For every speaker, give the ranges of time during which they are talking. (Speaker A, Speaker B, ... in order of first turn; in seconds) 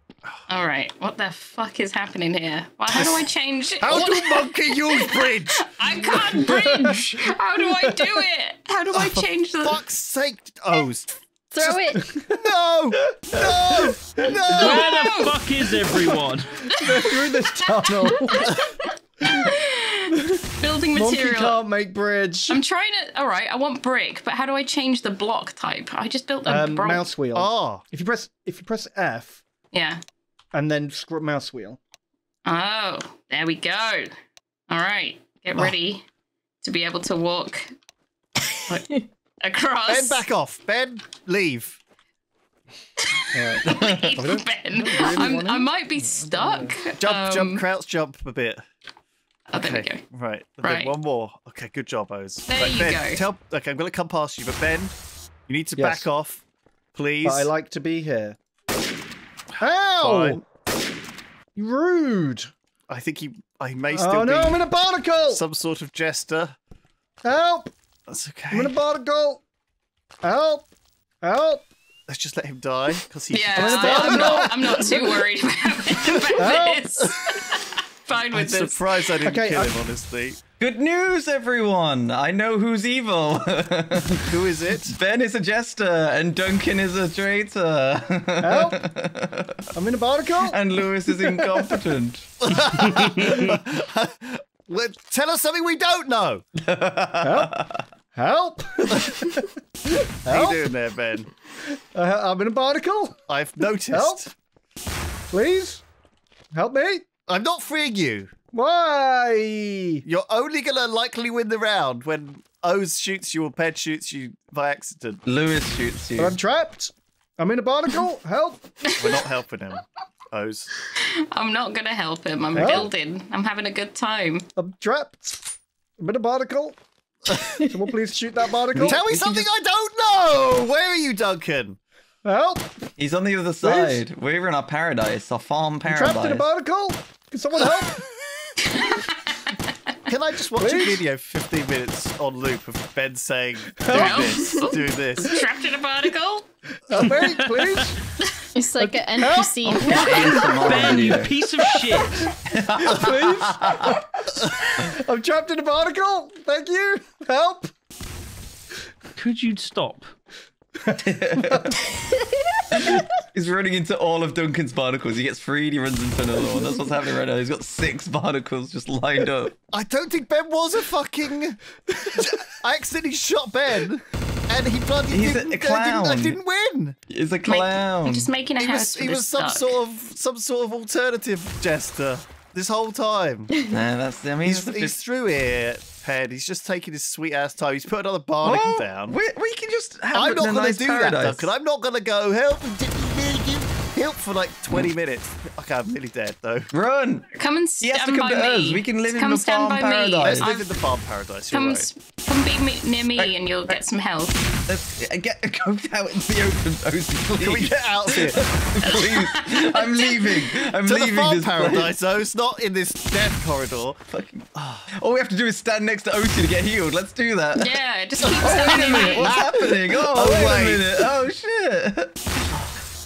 Speaker A: 0.5-9.8, 14.5-15.4, 18.1-18.6, 19.2-21.6, 22.5-27.1, 29.7-30.0, 32.5-34.1, 34.7-36.0, 36.6-37.7, 38.7-40.2, 43.0-47.6, 49.5-50.0, 50.6-50.9, 52.5-53.2, 73.3-79.1, 121.0-124.5, 138.7-139.5, 143.9-146.5, 177.4-179.8, 197.3-200.8, 201.5-204.5, 208.8-210.7, 217.5-219.4
Speaker B: 2.9-3.3, 3.8-5.7, 8.9-15.2, 27.3-27.8, 39.9-41.8, 47.0-48.6, 49.5-54.9, 55.5-56.4, 56.9-57.5, 60.0-60.4, 62.9-64.6, 65.3-66.5, 68.1-68.7, 72.1-75.0, 76.0-76.4, 78.3-80.4, 84.2-85.0, 92.4-96.4, 100.3-101.3, 103.3-104.3, 107.3-108.3, 110.0-115.2, 118.9-120.7, 128.8-131.8, 140.1-145.4, 169.7-177.0, 178.6-183.5, 184.4-189.2, 190.1-196.7, 200.2-201.9, 207.4-208.4, 210.8-214.0, 214.6-214.9, 218.2-220.8
Speaker C: 6.2-8.2, 12.0-12.3, 13.3-14.8, 16.7-18.7, 20.9-22.6, 26.4-29.4, 30.5-31.8, 43.3-46.8, 55.7-56.1, 57.2-58.4, 59.6-60.4, 61.5-62.5, 63.9-65.4, 67.2-67.7, 68.5-69.4, 70.2-71.7, 73.5-75.0, 76.3-77.1, 79.2-79.8, 88.4-88.8, 89.7-90.6, 97.2-99.5, 100.2-100.7, 101.7-103.2, 103.9-104.2, 105.3-105.8, 106.5-107.1, 108.5-110.0, 116.2-118.7, 122.5-122.9, 124.6-126.8, 127.3-129.4, 132.2-132.7, 133.6-134.1, 135.8-138.0, 140.6-141.0, 143.8-144.2, 146.9-148.0, 148.8-157.7, 160.8-161.8
Speaker D: 11.5-12.1, 127.4-127.7, 148.5-150.4
Speaker E: 14.5-16.8, 147.0-147.5, 149.9-152.3, 159.2-160.1
Speaker F: 43.6-44.2, 80.6-89.6, 90.5-92.3, 96.6-97.8, 115.2-116.4, 128.7-129.0, 133.0-136.5, 149.7-151.4, 152.5-153.9, 160.9-161.8, 162.7-169.5, 175.1-176.4, 177.1-178.3, 183.7-185.0, 188.4-191.5, 196.7-197.3, 197.8-200.5, 203.2-203.7, 204.7-211.9, 214.1-217.8, 218.3-222.2